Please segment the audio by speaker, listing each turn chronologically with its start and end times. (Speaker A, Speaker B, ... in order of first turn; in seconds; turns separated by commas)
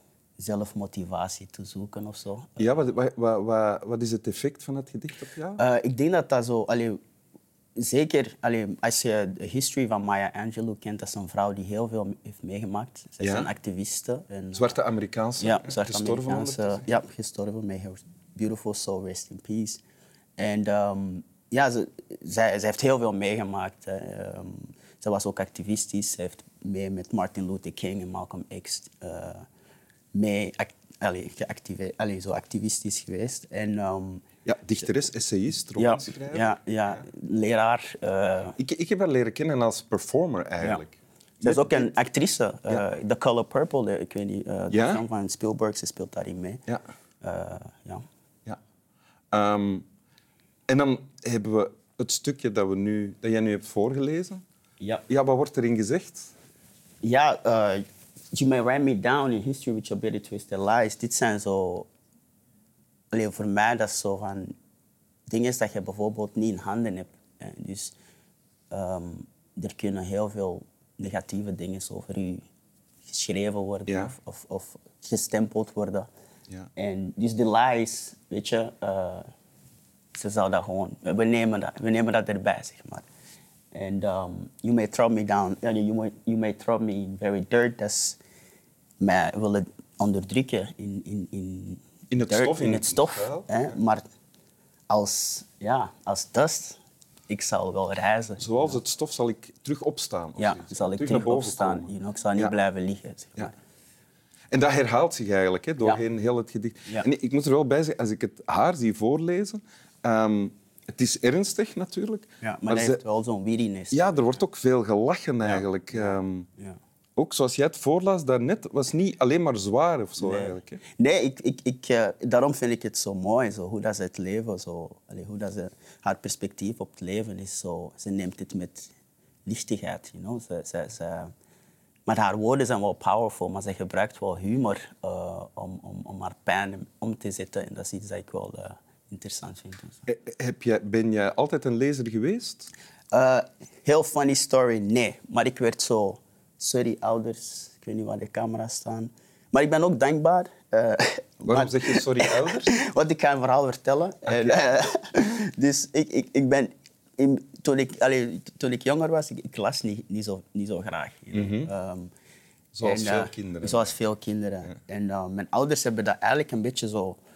Speaker A: 0.4-2.8, Speaker B: 2.6-5.6, Speaker A: 5.6-7.0, Speaker A: 7.8-14.8, Speaker B: 13.2-13.5, Speaker B: 14.5-16.9, Speaker A: 15.4-19.8, Speaker A: 20.4-29.4, Speaker A: 30.1-34.2, Speaker B: 34.4-37.0, Speaker A: 35.8-38.6, Speaker B: 38.6-41.9, Speaker A: 41.4-46.6, Speaker B: 44.7-45.0, Speaker A: 47.2-48.0, Speaker B: 49.3-49.9, Speaker B: 50.7-54.4, Speaker A: 54.8-55.0, Speaker B: 55.1-56.3, Speaker A: 57.0-61.9, Speaker A: 63.1-64.5, Speaker A: 65.3-67.9, Speaker A: 68.7-72.4, Speaker A: 73.0-76.1, Speaker B: 73.9-74.1, Speaker A: 76.8-79.2, Speaker A: 80.1-83.0, Speaker A: 83.7-88.2, Speaker A: 89.0-94.0, Speaker B: 92.1-93.7, Speaker A: 94.9-98.8, Speaker B: 98.4-102.5, Speaker A: 100.3-103.5, Speaker B: 104.5-113.0, Speaker A: 112.4-114.3, Speaker B: 113.9-116.5, Speaker A: 115.4-116.8, Speaker B: 117.2-120.8, Speaker A: 120.2-128.9, Speaker A: 129.4-131.3, Speaker A: 132.1-140.0, Speaker B: 140.1-142.7, Speaker A: 143.1-162.1, Speaker B: 151.4-152.7, Speaker B: 161.3-161.7, Speaker B: 162.7-163.9, Speaker A: 162.8-167.2